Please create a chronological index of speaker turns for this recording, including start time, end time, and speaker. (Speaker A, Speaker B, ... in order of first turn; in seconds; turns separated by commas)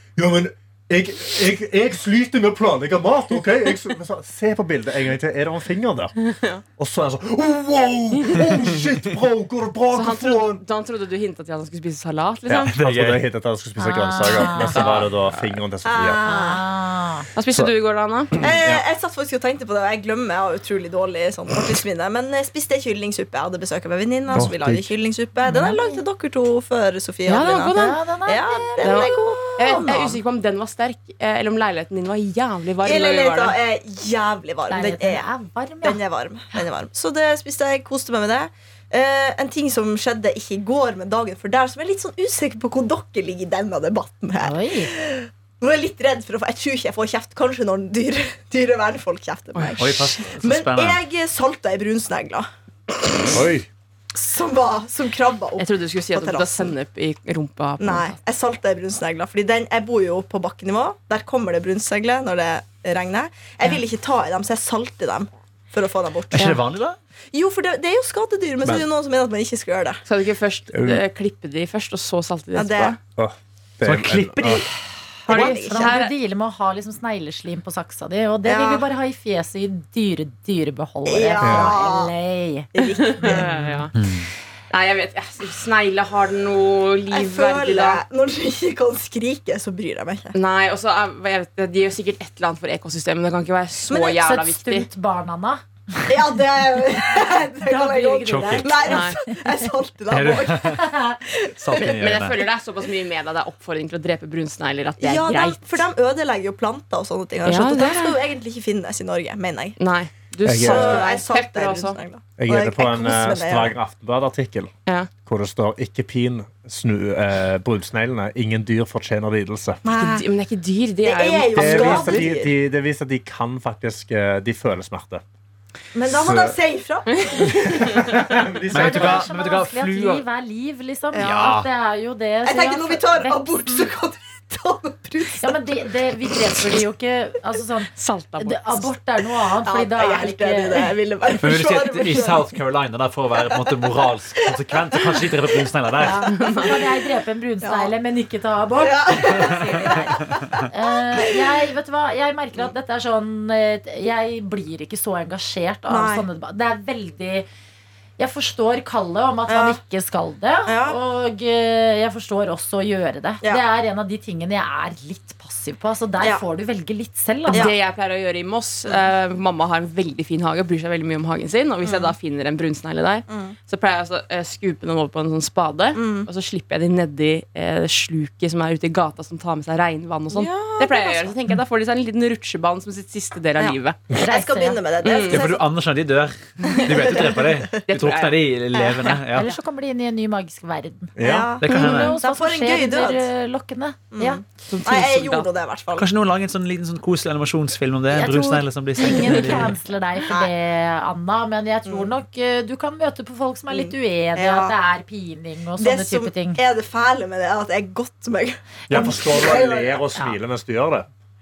Speaker A: 0.2-6.2, Speaker B: 6.3-6.6, Speaker A: 6.8-10.6, Speaker B: 8.2-8.4, Speaker B: 9.9-12.7, Speaker A: 12.5-16.2, Speaker C: 12.7-13.2, Speaker D: 13.8-14.8, Speaker B: 14.6-15.4, Speaker C: 14.7-15.1, Speaker E: 15.8-16.7, Speaker D: 16.2-17.3, Speaker B: 17.4-18.3, Speaker A: 18.3-18.8, Speaker E: 18.4-30.2, Speaker A: 24.3-24.9, Speaker D: 25.4-26.0, Speaker B: 27.3-28.0, Speaker D: 27.7-29.2, Speaker B: 28.8-33.6, Speaker E: 32.8-35.3, Speaker D: 34.7-36.0, Speaker E: 35.8-53.4, Speaker D: 44.4-44.9, Speaker C: 49.8-51.0, Speaker A: 53.3-53.7, Speaker E: 54.1-56.7, Speaker B: 55.6-58.2, Speaker E: 57.8-66.6, Speaker C: 66.3-67.0, Speaker E: 67.3-70.0, Speaker B: 70.1-73.0, Speaker A: 70.7-71.0, Speaker E: 72.5-73.0, Speaker A: 73.2-74.7, Speaker C: 73.8-74.8, Speaker E: 75.3-76.0, Speaker B: 75.3-76.1, Speaker D: 75.3-82.7, Speaker E: 78.5-78.8, Speaker E: 81.1-82.1, Speaker A: 81.4-81.8, Speaker E: 82.7-83.5, Speaker B: 83.0-83.9, Speaker C: 83.9-84.3, Speaker B: 84.7-88.0, Speaker E: 87.1-90.4, Speaker B: 90.3-94.9, Speaker E: 93.9-94.2, Speaker D: 94.2-99.7, Speaker E: 96.1-101.9, Speaker C: 98.3-98.8, Speaker B: 98.8-99.2, Speaker C: 100.1-100.9, Speaker D: 100.7-101.2, Speaker C: 101.6-102.4, Speaker B: 101.8-105.8, Speaker E: 105.0-109.8, Speaker B: 107.5-108.2, Speaker B: 109.8-112.0, Speaker A: 110.5-111.0, Speaker E: 110.5-113.7, Speaker A: 112.4-114.7, Speaker A: 115.3-119.8, Speaker E: 119.8-120.3, Speaker B: 119.9-122.3, Speaker E: 121.0-122.5, Speaker A: 121.6-125.2, Speaker E: 125.9-128.3, Speaker A: 126.1-126.6, Speaker B: 127.2-128.1, Speaker A: 127.5-129.3, Speaker C: 128.7-130.2, Speaker D: 128.8-133.9, Speaker E: 131.1-131.6, Speaker C: 131.2-131.7, Speaker E: 132.4-135.9, Speaker D: 135.4-140.9, Speaker B: 138.0-138.9, Speaker E: 139.6-142.5, Speaker C: 141.4-146.3, Speaker E: 143.4-145.7, Speaker D: 146.0-157.5, Speaker E: 146.3-146.9, Speaker B: 146.3-146.7, Speaker E: 147.6-147.9, Speaker E: 148.8-151.6, Speaker E: 155.9-156.3, Speaker D: 158.2-167.7, Speaker E: 159.5-159.8, Speaker E: 160.7-161.0, Speaker B: 167.5-184.0, Speaker E: 171.8-172.2, Speaker E: 173.3-173.6, Speaker E: 176.0-176.3, Speaker E: 180.3-181.3, Speaker E: 183.6-185.7, Speaker D: 184.2-184.8, Speaker B: 185.0-185.4, Speaker C: 185.3-189.5, Speaker E: 186.7-187.8, Speaker B: 187.9-188.4, Speaker E: 188.7-189.2, Speaker D: 189.1-194.4, Speaker A: 191.2-191.5, Speaker E: 191.2-193.3, Speaker C: 191.6-192.2, Speaker E: 194.1-196.1, Speaker B: 194.7-195.5, Speaker C: 196.0-199.7, Speaker D: 198.1-206.6, Speaker E: 203.7-204.7, Speaker E: 205.8-210.0, Speaker A: 208.9-211.1